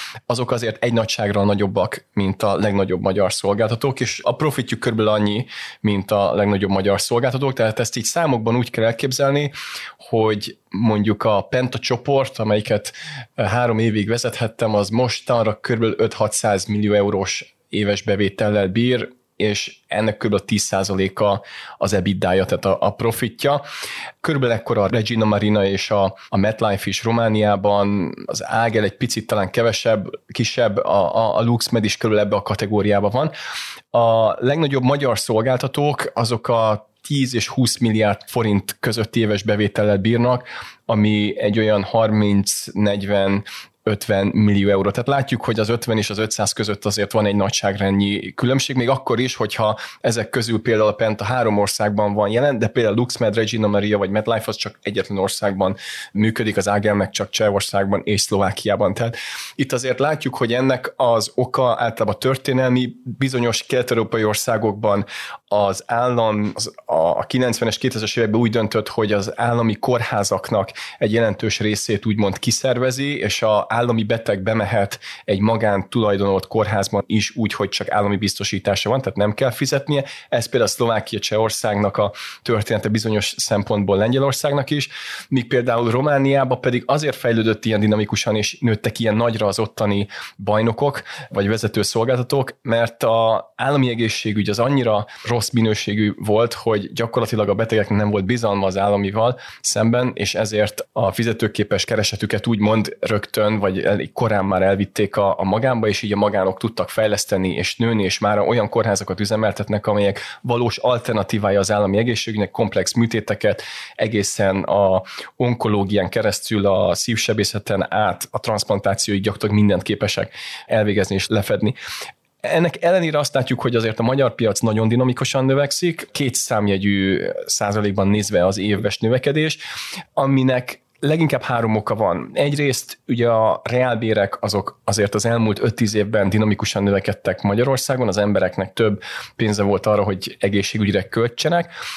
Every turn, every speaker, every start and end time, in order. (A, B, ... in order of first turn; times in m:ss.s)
0:00.3-0:23.6 A
0:24.2-0:33.3 A
0:33.9-2:01.8 A
2:02.4-2:09.6 A
2:10.2-2:21.7 A